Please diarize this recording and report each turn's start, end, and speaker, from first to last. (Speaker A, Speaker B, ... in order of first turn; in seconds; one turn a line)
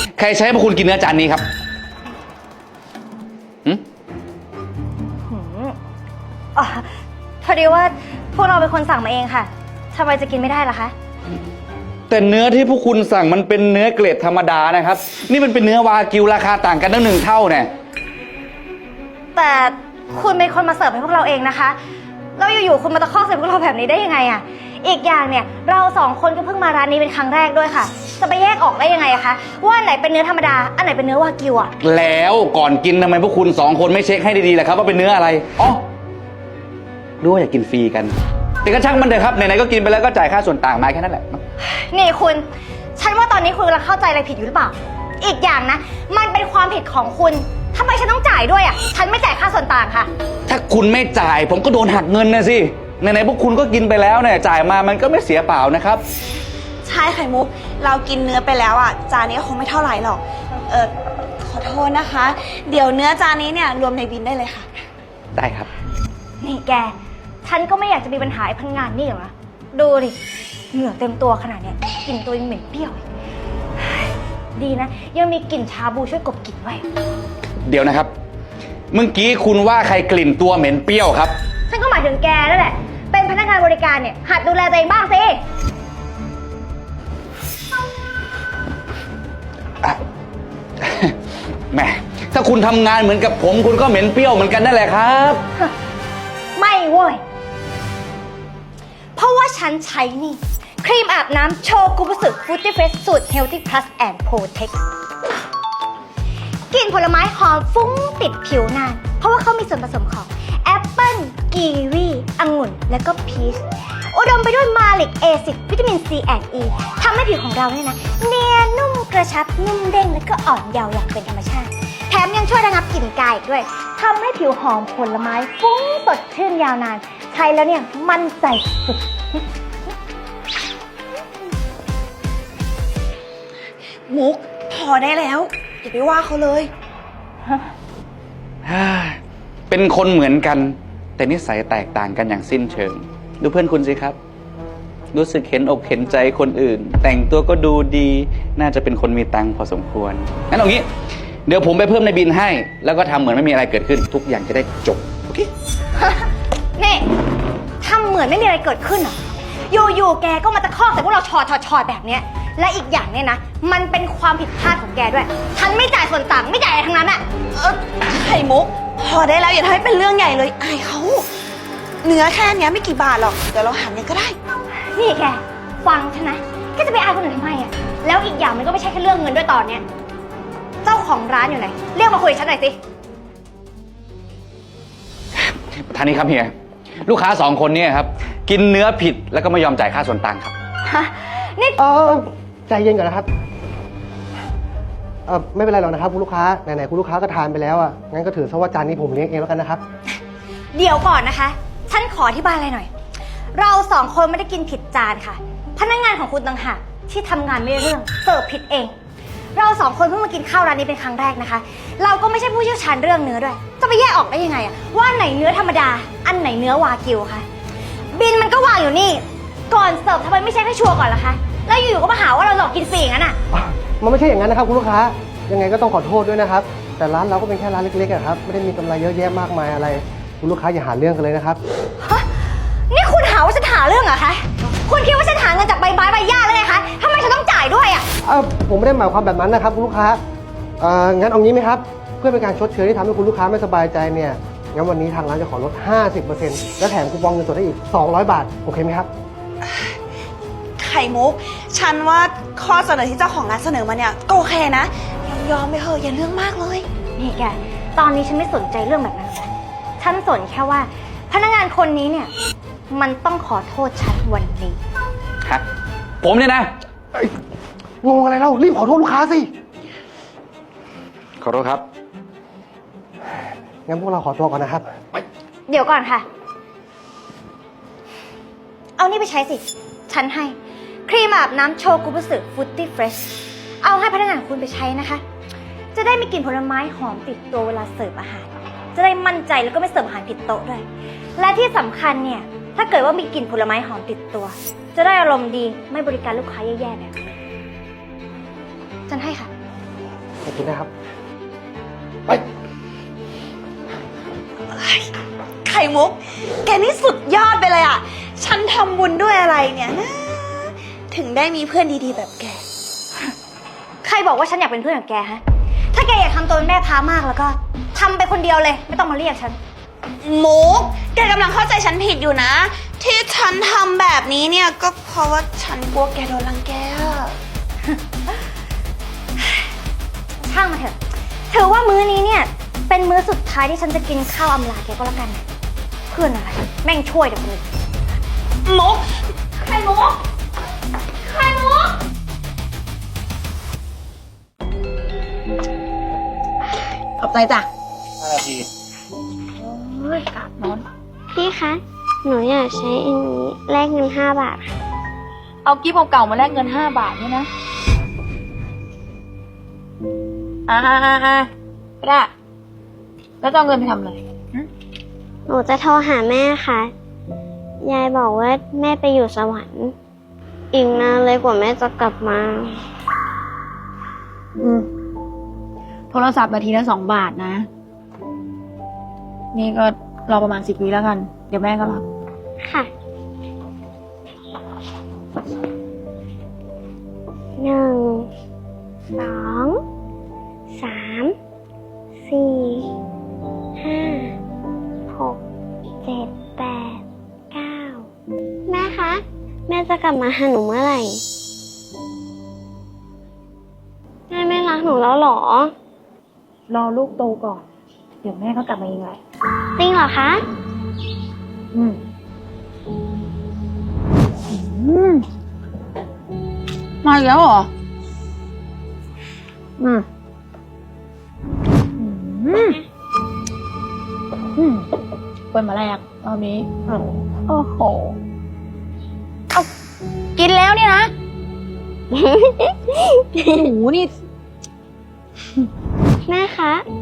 Speaker A: 0.2-1.4
Speaker B: 5.3-5.8
Speaker B: 6.5-6.9
Speaker B: 7.4-10.9
Speaker A: 12.1-17.7
Speaker B: 19.3-21.8
Speaker B: 22.4-31.7
Speaker A: 31.8-35.8
Speaker A: 37.2-41.4
Speaker B: 41.9-42.5
Speaker B: 43.0-50.1
Speaker A: 50.5-56.0
Speaker C: 56.8-64.7
Speaker A: 65.3-65.7
Speaker B: 66.4-70.2
Speaker B: 70.7-73.0
Speaker B: 74.5-76.8
Speaker A: 77.7-78.1
Speaker A: 78.9-81.3
Speaker B: 81.7-85.4
Speaker A: 90.8-91.1
Speaker A: 91.7-95.4
Speaker B: 96.6-97.2
Speaker B: 99.2-104.8
Speaker B: 106.7-129.4
Speaker C: 134.1-136.7
Speaker A: 138.7-144.2
Speaker A: 145.1-150.9
Speaker A: 151.5-155.5
Speaker B: 156.0-156.2
Speaker B: 156.8-157.1
Speaker B: 157.8-159.2
Speaker B: 159.7-167.2
Speaker C: 167.5-171.3
Speaker C: 172.0-174.4
Speaker B: 174.9-179.8
Speaker B: 180.8-182.8
Speaker A: 185.5-186.5
Speaker A: 187.0-190.5
Speaker B: 190.8-191.8
Speaker D: 191.8-193.3
Speaker D: 195.2-199.8
Speaker B: 200.7-202.9
Speaker B: 203.5-208.9
Speaker B: 209.5-217.4
Speaker B: 218.1-223.4
Speaker D: 223.5-231.6
Speaker B: 232.0-238.1
Speaker D: 238.2-240.2
Speaker D: 240.8-249.1
Speaker C: 250.8-256.9
Speaker B: 257.2-262.3
Speaker B: 262.9-264.8
Speaker A: 266.2-266.7
Speaker D: 268.0-269.5
Speaker A: 271.4-271.8
Speaker D: 273.9-275.2
Speaker B: 275.7-276.3
Speaker B: 279.0-280.6
Speaker B: 281.1-285.2
Speaker B: 285.9-290.9
Speaker B: 291.4-297.1
Speaker B: 299.1-299.5
Speaker D: 300.4-300.9
Speaker C: 304.7-305.1
Speaker C: 305.6-312.6
Speaker B: 314.0-315.4
Speaker B: 315.9-319.6
Speaker C: 320.2-327.4
Speaker B: 330.4-331.0
Speaker B: 331.5-335.4
Speaker B: 336.1-337.7
Speaker C: 338.6-339.1
Speaker E: 347.2-347.7
Speaker E: 349.6-350.9
Speaker F: 351.3-354.7
Speaker E: 355.6-357.5
Speaker E: 360.7-361.5
Speaker E: 362.0-362.3
Speaker E: 363.4-364.7
Speaker F: 365.5-366.9
Speaker F: 367.8-369.9
Speaker F: 370.7-372.7
Speaker E: 374.6-374.9
Speaker E: 376.1-377.7
Speaker E: 379.5-382.1
Speaker F: 382.6-382.9
Speaker F: 387.6-388.3
Speaker F: 389.2-389.8
Speaker F: 390.8-391.3
Speaker F: 392.2-392.9
Speaker F: 393.8-394.3
Speaker F: 395.1-395.4
Speaker F: 396.0-397.0
Speaker F: 397.5-398.1
Speaker F: 398.7-401.2
Speaker F: 404.3-405.7
Speaker E: 406.7-407.6
Speaker E: 408.2-409.2
Speaker F: 409.8-410.4
Speaker E: 411.7-412.0
Speaker E: 414.5-415.2
Speaker E: 417.0-417.7
Speaker E: 419.8-420.1
Speaker E: 422.0-422.8
Speaker E: 424.6-424.9
Speaker E: 425.5-428.2
Speaker E: 430.4-431.1
Speaker F: 432.1-433.6
Speaker E: 433.4-434.1
Speaker F: 436.3-436.8